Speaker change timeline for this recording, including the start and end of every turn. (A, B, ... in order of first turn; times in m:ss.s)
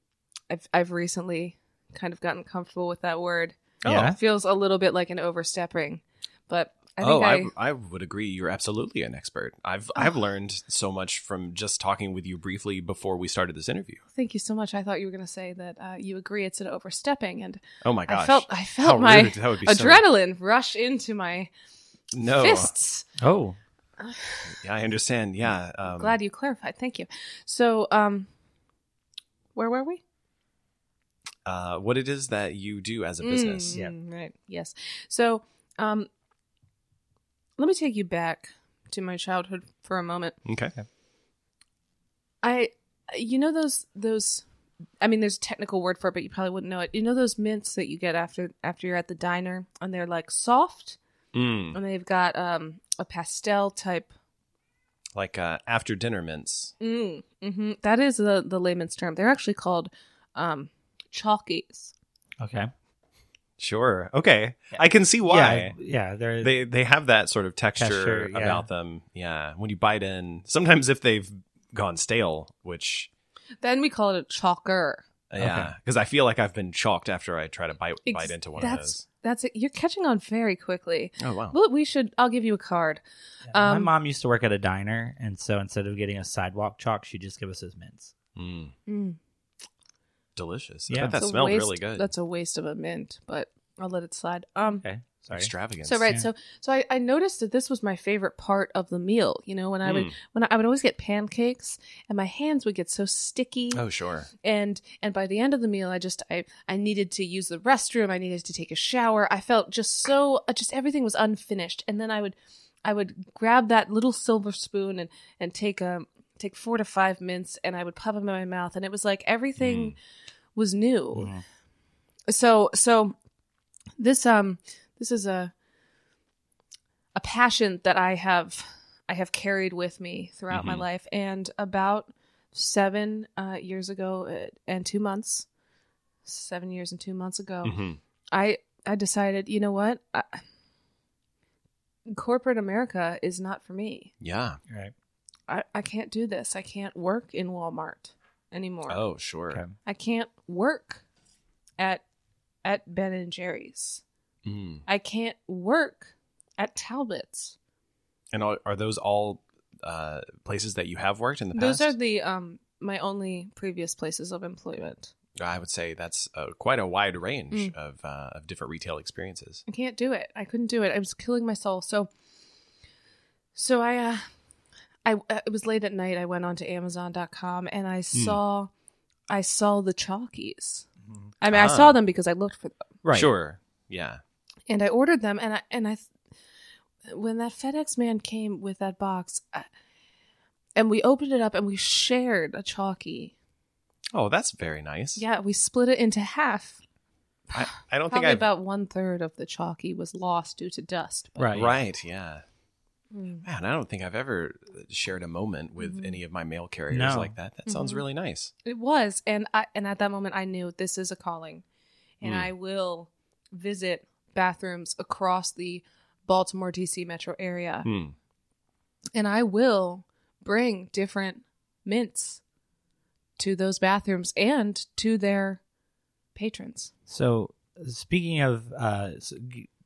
0:00.5-0:07.5 A
0:03.8-0:04.2 B
0:03.8-0:04.2 C
0:07.0-0:14.0 B
0:14.2-0:21.5 A
0:17.8-0:20.0 B
0:22.1-0:22.7 B
0:22.4-0:23.0 A
0:23.2-0:23.6 C
0:24.0-0:24.5 A
0:24.5-0:26.2 B
0:25.9-0:28.3 A
0:29.6-0:30.0 A
0:31.5-0:33.8 B
0:33.2-0:36.1 A
0:37.6-0:40.4 A
0:40.4-0:40.8 B
0:42.4-0:44.4 A
0:45.0-0:51.0 A
0:51.3-0:51.8 B
0:51.7-0:54.1 A
0:55.2-0:56.7 B
0:56.8-1:01.9 A
1:02.4-1:02.7 C
1:03.6-1:05.8 B
1:05.3-1:06.5 C
1:06.4-1:13.1 B
1:07.8-1:08.6 C
1:13.6-1:15.0 A
1:15.3-1:19.0 B
1:15.4-1:15.7 C
1:18.1-1:23.0 A
1:21.2-1:21.6 B
1:23.5-1:28.1 C
1:23.5-1:23.9 A
1:28.4-1:28.8 B
1:28.9-1:29.2 A
1:30.4-1:32.1 B
1:30.9-1:31.2 C
1:31.1-1:34.8 A
1:34.8-1:35.5 C
1:35.3-1:36.1 B
1:35.8-1:43.8 A
1:39.8-1:40.2 B
1:43.7-1:44.3 B
1:44.4-2:00.0 A
1:59.6-2:00.0 B
2:00.6-2:01.3 A
2:01.1-2:01.4 C
2:02.3-2:03.2 A
2:04.0-2:05.5 A
2:07.2-2:15.5 A
2:10.5-2:10.8 B
2:16.2-2:17.8 A
2:17.6-2:18.0 B
2:18.3-2:20.4 A
2:22.1-2:24.1 A
2:24.2-2:24.6 B
2:25.5-2:29.0 A
2:28.9-2:29.6 B
2:29.8-2:31.0 A
2:31.8-2:32.0 A
2:32.6-2:34.0 A
2:34.4-2:34.8 B
2:34.9-2:37.6 A
2:38.3-2:42.0 B
2:41.5-2:45.1 A
2:45.4-2:49.6 B
2:49.7-2:52.1 A
2:53.6-2:54.3 A
2:55.0-2:58.7 A
2:59.3-3:00.9 A
3:01.4-3:02.8 A
3:01.5-3:02.0 B
3:03.0-3:03.3 C
3:03.1-3:04.2 B
3:04.7-3:06.1 A
3:07.1-3:09.7 A
3:10.8-3:13.3 A
3:14.1-3:15.2 B
3:15.2-3:16.8 A
3:17.5-3:21.7 A
3:17.5-3:18.5 B
3:21.4-3:21.7 C
3:21.5-3:22.4 B
3:23.1-3:23.4 A
3:23.4-3:28.5 B
3:25.8-3:26.2 A
3:26.9-3:27.3 C
3:27.7-3:28.0 A
3:28.6-3:31.6 A
3:32.2-3:37.9 A
3:32.2-3:32.5 B
3:37.8-3:38.2 B
3:39.2-3:42.4 A
3:43.4-3:45.6 A
3:46.4-3:46.9 A
3:47.1-3:49.7 C